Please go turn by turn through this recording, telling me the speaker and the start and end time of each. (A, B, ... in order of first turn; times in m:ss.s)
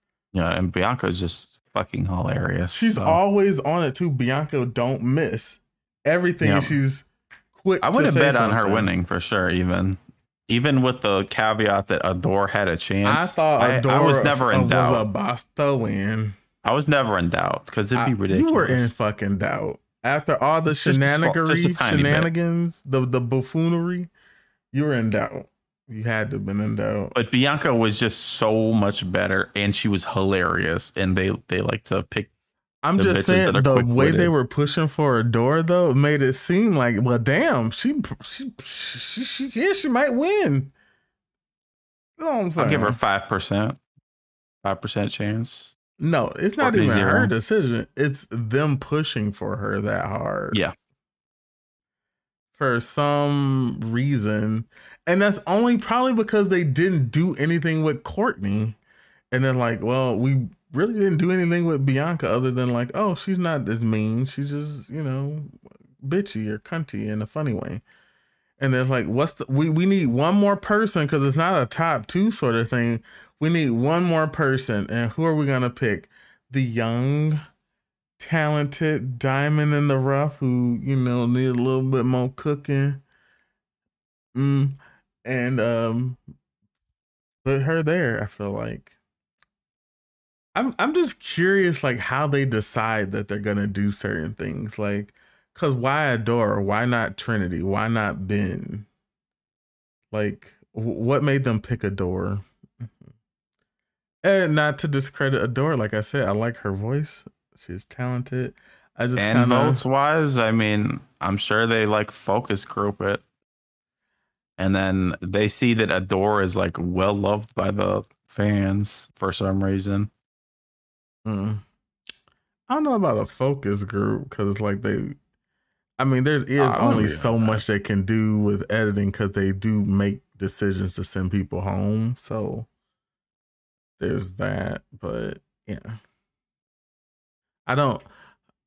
0:00.3-0:03.2 A
0:02.7-0:08.9 B
0:06.4-0:06.8 A
0:07.8-0:15.1 A
0:13.0-0:16.4 B
0:16.6-0:18.9 A
0:18.0-0:24.1 B
0:20.7-0:22.3 A
0:24.7-0:27.2 B
0:27.1-0:32.3 A
0:32.8-0:40.7 B
0:33.0-0:34.3 A
0:42.2-0:43.0 B
0:42.6-0:43.8 A
0:44.6-0:45.7 A
0:46.0-0:50.6 B
0:46.6-0:47.3 A
0:52.6-0:58.8 B
0:59.3-1:07.8 B
1:08.6-1:17.4 B
1:18.2-1:23.0 B
1:24.4-1:26.2 B
1:27.4-1:28.9 B
1:30.6-1:38.9 B
1:40.1-1:42.9 B
1:44.2-1:49.8 B
1:49.2-1:53.2 A
1:54.6-2:00.1 A
2:01.2-2:01.6 B
2:02.7-2:05.2 B
2:06.0-2:12.7 B
2:06.6-2:07.8 A
2:14.0-2:16.0 B
2:17.7-2:18.1 B